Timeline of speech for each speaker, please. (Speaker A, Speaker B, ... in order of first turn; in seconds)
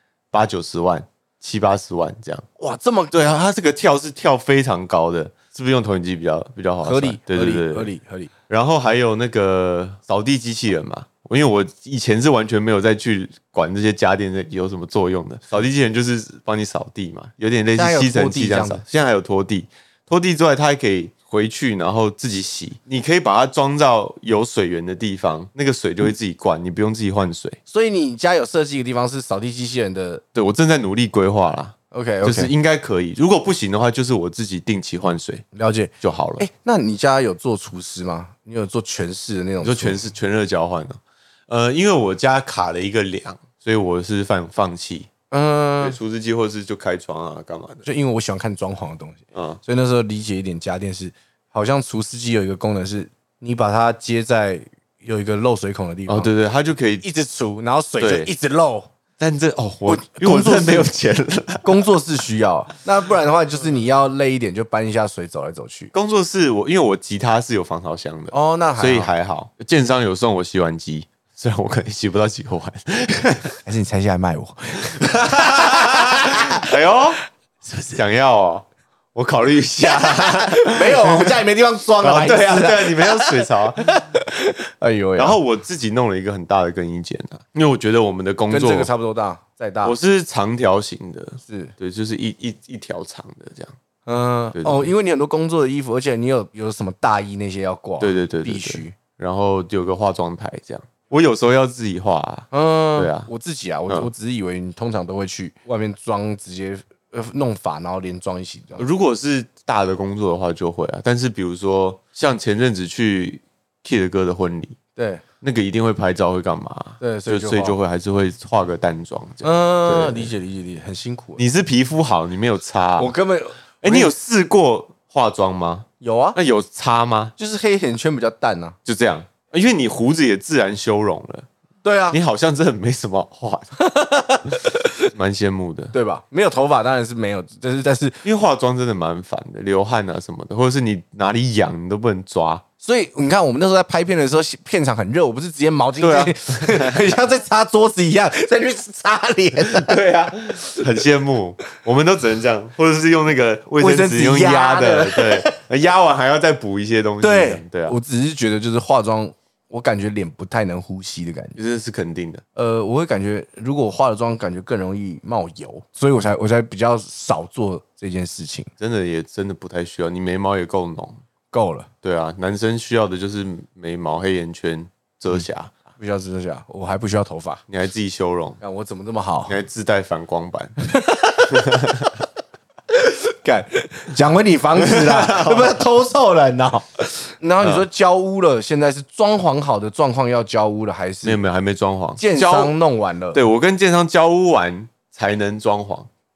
Speaker A: 0.3-2.5, 3.1-7.9, 8.5-27.6, 30.4-35.5, 36.0-36.5, 39.6-45.1, 45.8-47.8, 49.3-49.6, 56.1-57.0, 58.0-58.3, 59.2-61.9, 65.9-73.6, 75.0-77.2, 77.7-81.4, 82.0-84.0, 85.2-88.9, 89.8-93.8, 94.5-94.9, 98.0-103.3, 108.8-114.8, 115.4-120.3, 121.4-123.1, 123.8-127.3, 128.9-131.5, 132.1-133.7, 135.1-135.9, 138.2-142.6, 146.0-147.1, 149.7-158.0, 161.6-162.4, 168.8-171.2, 172.0-175.7, 177.7-178.6, 179.5-180.8, 181.5-182.1, 184.8-185.8, 187.6-187.9, 191.2-192.8, 193.3-196.1
Speaker B: 2.6-3.1, 6.8-8.3, 17.8-18.8, 27.7-30.2, 31.9-32.5, 35.5-40.1, 45.3-46.0, 47.8-56.3, 57.0-58.9, 59.9-60.9, 61.6-65.9, 68.3-69.1, 73.7-76.7, 80.2-85.4, 88.5-90.0, 91.4-91.7, 94.1-99.0, 102.5-108.9, 115.0-115.2, 117.0-117.8, 119.4-121.4, 123.0-124.1, 126.0-126.4, 127.4-128.8, 131.8-132.2, 133.8-135.1, 135.9-138.2, 142.8-150.0, 153.8-155.6, 157.2-161.6, 162.6-168.7, 171.5-171.9, 176.0-177.6, 178.6-179.6, 180.9-181.6, 182.9-191.4, 192.2-193.4